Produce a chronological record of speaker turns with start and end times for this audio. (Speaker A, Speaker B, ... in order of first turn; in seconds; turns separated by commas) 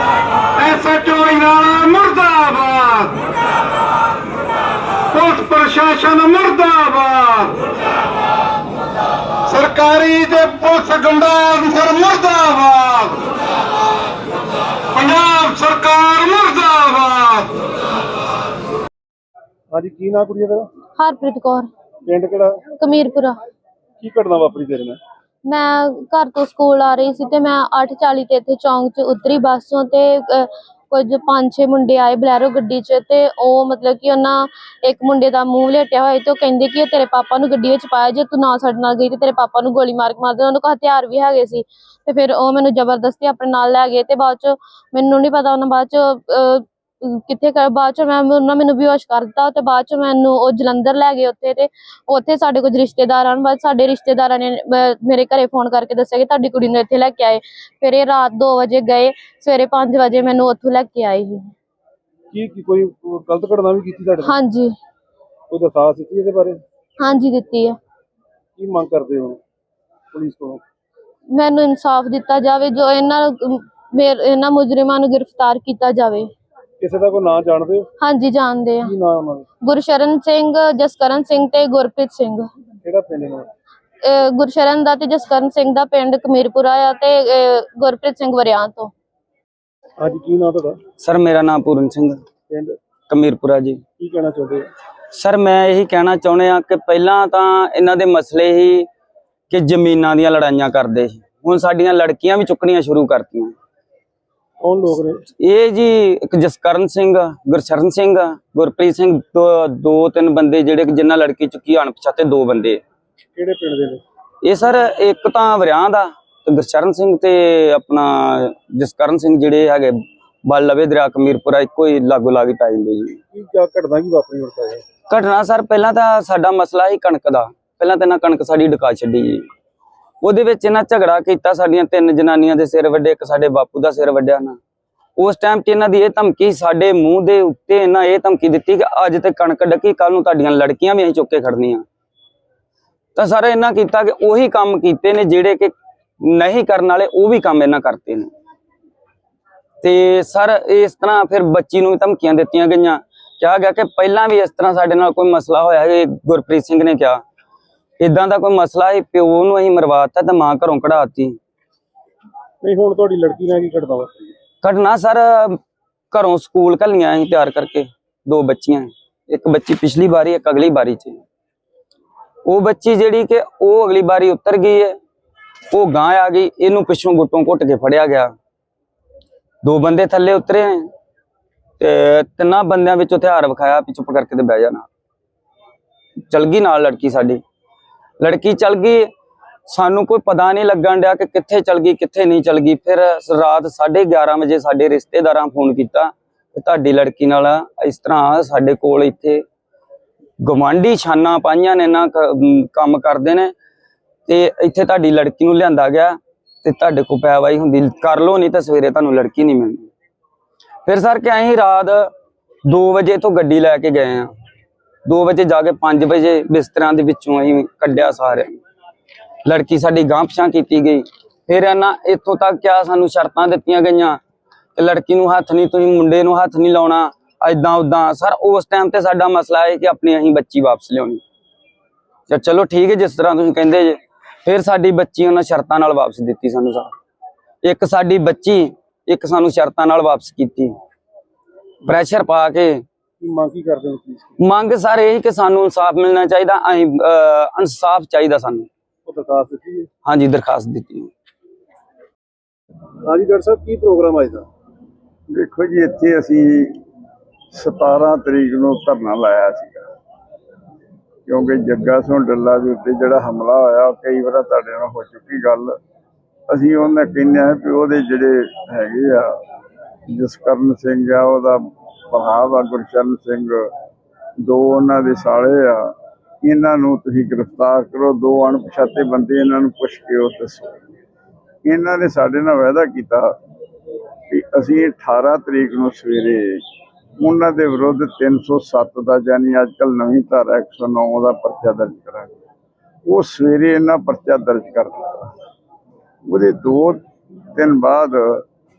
Speaker A: 0.6-3.2, Speaker A: 5.1-7.6, Speaker A: 9.5-13.2, Speaker A: 14.9-17.6, Speaker B: 19.7-20.7, Speaker C: 21.0-21.7, Speaker B: 22.1-22.6, Speaker C: 22.8-23.4, Speaker B: 24.0-25.0, Speaker C: 25.4-61.5, Speaker B: 62.3-64.5, Speaker C: 64.2-64.7, Speaker B: 65.5-66.6, Speaker C: 67.0-67.8, Speaker B: 68.6-69.4, Speaker B: 70.1-70.6, Speaker C: 71.3-76.3, Speaker B: 76.8-77.9, Speaker C: 78.0-78.9, Speaker B: 78.8-79.5, Speaker C: 79.7-82.5, Speaker B: 82.8-83.5, Speaker C: 84.1-88.9, Speaker B: 90.0-90.8, Speaker D: 91.0-92.2, Speaker B: 92.5-92.8, Speaker D: 93.1-93.8, Speaker B: 94.0-94.7, Speaker D: 95.2-98.8, Speaker D: 99.5-103.5, Speaker B: 104.6-105.2, Speaker D: 105.5-112.8, Speaker B: 113.3-114.0, Speaker D: 114.5-119.9, Speaker B: 114.6-115.2, Speaker D: 120.5-123.2, Speaker B: 123.3-124.8, Speaker D: 125.1-129.4, Speaker D: 130.2-134.6, Speaker D: 135.2-141.8, Speaker D: 143.2-145.7, Speaker D: 146.2-148.3, Speaker D: 149.8-157.2, Speaker D: 158.0-161.3, Speaker B: 162.6-164.3, Speaker D: 164.6-165.6, Speaker D: 166.1-171.2, Speaker D: 172.5-174.9, Speaker D: 175.7-178.3, Speaker D: 179.6-180.8, Speaker D: 181.8-184.8, Speaker D: 186.3-187.4, Speaker D: 188.2-189.1, Speaker D: 189.7-199.4, Speaker D: 200.4-203.5, Speaker D: 204.3-209.9, Speaker D: 210.8-212.1, Speaker D: 212.7-214.3, Speaker D: 215.0-218.6, Speaker D: 219.4-224.2, Speaker D: 224.8-231.2, Speaker D: 232.3-236.9, Speaker D: 237.6-240.7, Speaker B: 241.9-242.3, Speaker D: 241.9-242.8, Speaker B: 243.2-244.7, Speaker D: 244.5-248.6, Speaker B: 249.0-249.9, Speaker D: 250.1-251.1, Speaker B: 253.0-254.5, Speaker E: 255.3-256.8, Speaker E: 257.5-259.9, Speaker E: 261.3-265.7, Speaker E: 266.5-269.3, Speaker E: 270.1-273.7, Speaker E: 274.4-280.8, Speaker E: 281.6-283.3, Speaker E: 284.3-286.6, Speaker E: 287.2-292.3, Speaker E: 293.1-295.3, Speaker E: 296.3-297.0, Speaker E: 297.5-298.4